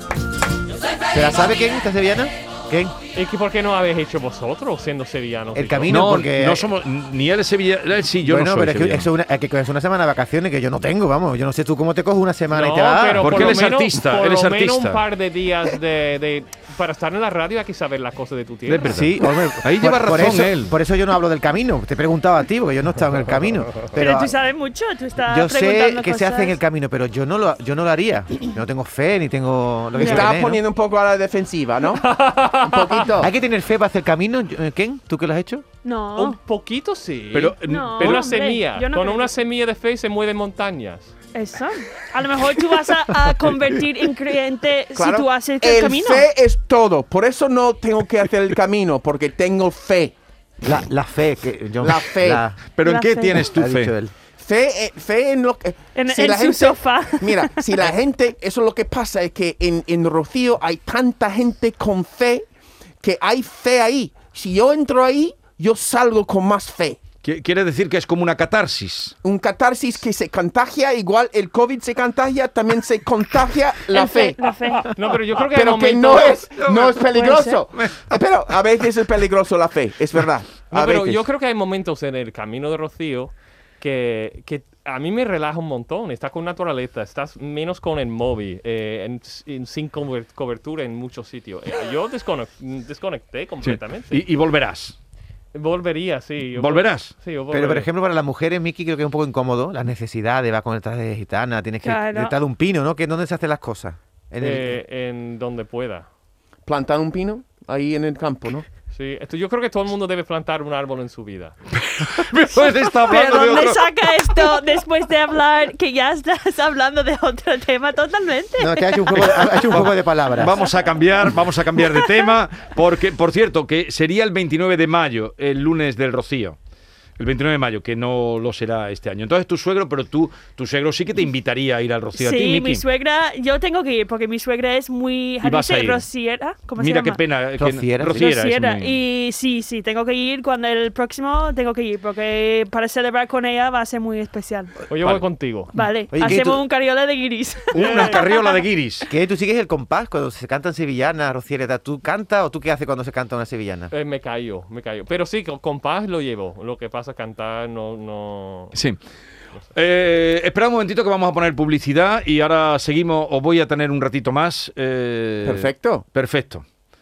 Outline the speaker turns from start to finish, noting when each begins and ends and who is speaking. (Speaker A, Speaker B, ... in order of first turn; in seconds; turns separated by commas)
Speaker A: 1.1-3.0, Speaker B: 3.1-6.2, Speaker A: 5.5-6.7, Speaker C: 5.9-9.1, Speaker A: 8.2-13.6, Speaker B: 12.5-19.0, Speaker C: 13.2-15.0, Speaker C: 18.7-20.7, Speaker A: 18.8-24.4, Speaker D: 23.9-26.6, Speaker A: 25.3-30.6, Speaker E: 29.9-32.1, Speaker B: 32.0-33.1, Speaker E: 32.6-33.3, Speaker A: 33.2-35.6, Speaker D: 35.8-36.4, Speaker B: 36.1-41.1, Speaker C: 37.3-38.4, Speaker D: 37.7-39.3, Speaker D: 41.3-46.3, Speaker E: 45.0-50.1, Speaker A: 50.6-52.6, Speaker E: 51.8-52.5, Speaker C: 52.6-53.9, Speaker D: 52.8-53.5, Speaker A: 53.5-54.1, Speaker E: 54.4-62.5, Speaker D: 56.0-57.7, Speaker E: 63.0-67.0, Speaker C: 67.2-69.2, Speaker E: 69.2-74.4, Speaker D: 73.9-74.9, Speaker B: 74.9-76.4, Speaker E: 75.5-81.2, Speaker C: 76.6-77.0, Speaker D: 76.9-77.6, Speaker C: 77.8-78.1, Speaker B: 80.7-94.2, Speaker C: 93.6-95.0, Speaker B: 95.5-97.9, Speaker C: 96.5-97.1, Speaker A: 97.5-104.8, Speaker D: 101.8-102.3, Speaker B: 104.4-106.1, Speaker E: 106.7-108.7, Speaker B: 108.9-111.6, Speaker C: 111.9-113.8, Speaker D: 113.0-119.3, Speaker A: 118.6-120.6, Speaker C: 119.1-126.6, Speaker D: 121.8-122.2, Speaker C: 127.2-132.8, Speaker D: 132.1-137.2, Speaker C: 135.4-136.1, Speaker C: 136.8-139.0, Speaker A: 137.6-138.2, Speaker D: 138.1-144.7, Speaker B: 144.9-145.7, Speaker C: 144.9-145.2, Speaker D: 145.7-148.4, Speaker A: 146.1-146.6, Speaker C: 147.7-149.1, Speaker B: 147.7-148.3, Speaker A: 149.1-153.9, Speaker B: 153.9-158.8, Speaker C: 158.7-159.0, Speaker C: 159.7-166.6, Speaker E: 165.4-166.1